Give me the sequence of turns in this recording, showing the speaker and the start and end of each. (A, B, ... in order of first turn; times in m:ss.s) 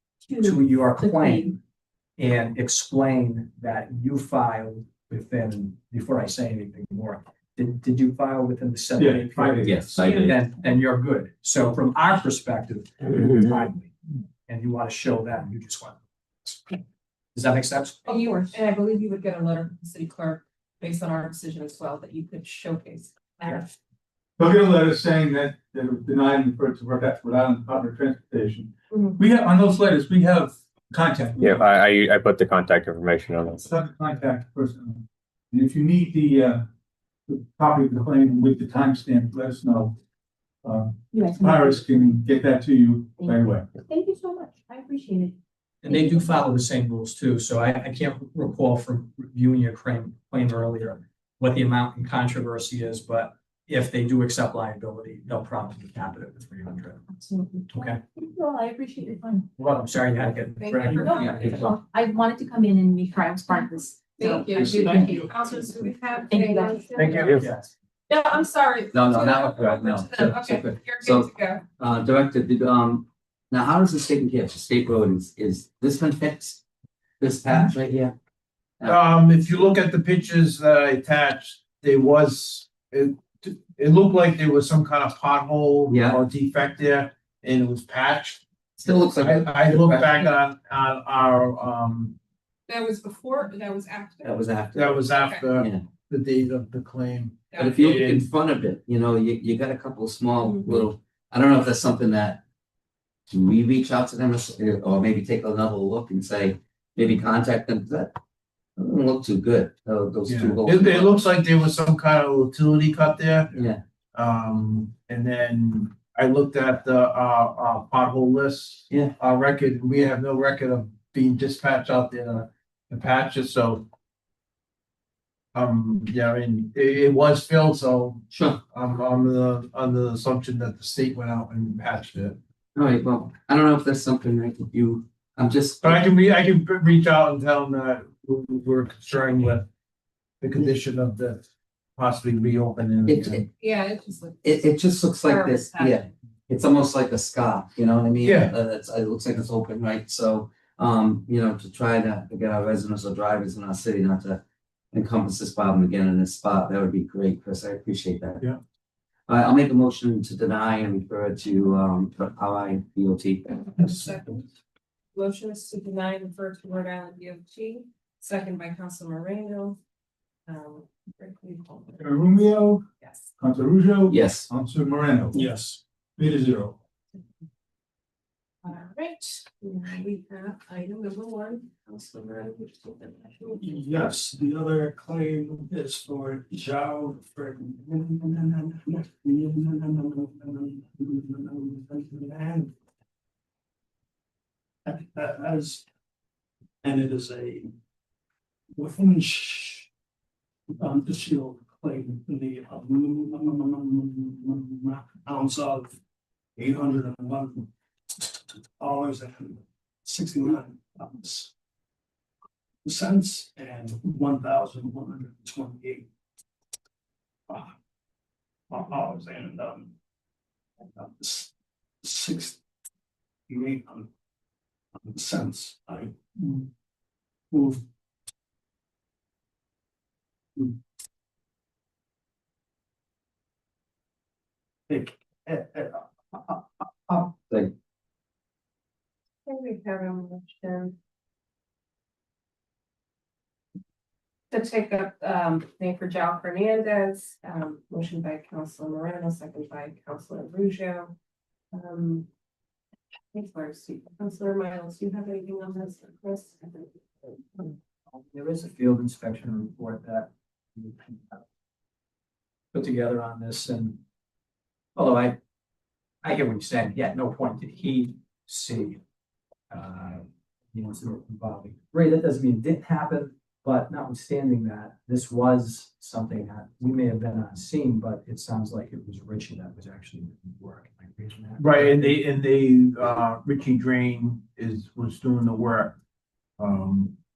0:00.3-0:01.6 A
0:00.4-0:01.6 B
0:02.2-0:13.9 B
0:09.0-0:10.0 C
0:09.6-0:10.3 D
0:10.1-0:10.3 A
0:14.5-0:16.8 B
0:17.3-0:18.4 B
0:18.1-0:23.7 E
0:24.4-0:31.7 C
0:28.9-0:29.2 E
0:31.4-0:33.7 F
0:33.6-0:36.6 C
0:37.3-0:39.9 C
0:40.6-0:43.7 C
0:41.1-0:42.2 A
0:43.2-0:46.3 A
0:45.8-0:57.0 B
0:57.7-0:58.0 B
0:58.2-0:59.5 A
0:59.6-1:01.5 B
1:00.6-1:01.6 E
1:01.0-1:05.3 A
1:01.2-1:01.7 D
1:03.5-1:07.4 E
1:06.3-1:07.1 A
1:07.0-1:07.3 G
1:07.2-1:07.5 F
1:07.3-1:07.7 B
1:08.1-1:11.6 E
1:08.9-1:16.6 D
1:17.2-1:18.1 D
1:18.8-1:19.7 D
1:18.8-1:28.4 G
1:25.9-1:26.2 D
1:28.8-1:30.3 D
1:29.2-1:32.2 G
1:32.7-1:34.4 E
1:34.2-1:35.9 D
1:34.7-1:38.3 G
1:35.2-1:35.4 E
1:37.6-1:42.4 D
1:40.4-1:40.8 E
1:43.3-1:48.2 D
1:48.8-1:51.2 D
1:50.3-1:53.6 G
1:53.5-1:53.8 D
1:54.1-2:03.9 G
2:05.5-2:12.4 G
2:08.3-2:08.6 D
2:12.8-2:16.1 D
2:15.8-2:19.6 G
2:20.4-2:21.4 G
2:22.0-2:23.4 G
2:23.1-2:23.5 D
2:23.6-2:26.1 E
2:24.4-2:34.4 D
2:28.2-2:28.6 G
2:34.9-2:38.4 D
2:39.3-2:43.8 D
2:43.7-2:44.5 E
2:45.1-2:49.8 E
2:50.5-2:52.1 E
2:52.0-2:52.8 C
2:53.0-2:53.3 E
2:53.4-2:55.5 C
2:54.1-2:54.5 D
2:55.3-2:55.8 H
2:56.2-2:56.8 C
2:58.6-3:03.8 E
3:03.6-3:12.7 H
3:14.8-3:15.8 H
3:16.8-3:17.7 H
3:18.7-3:19.9 H
3:20.8-3:26.0 H
3:26.6-3:31.5 H
3:32.8-3:36.1 H
3:37.5-3:37.7 H
3:38.7-3:39.9 H
3:40.9-3:41.5 H
3:42.0-3:42.6 H
3:43.5-3:44.1 H
3:45.0-3:46.7 H
3:47.5-3:47.8 H
3:54.9-3:57.3 H
3:59.5-4:01.0 E
4:04.5-4:11.1 E
4:11.7-4:12.3 E
4:13.3-4:17.7 E
4:18.1-4:21.4 B
4:22.7-4:24.0 B
4:25.0-4:25.4 B
4:26.2-4:29.0 B
4:29.7-4:42.2 B
4:41.6-4:46.0 G
4:46.6-4:47.2 G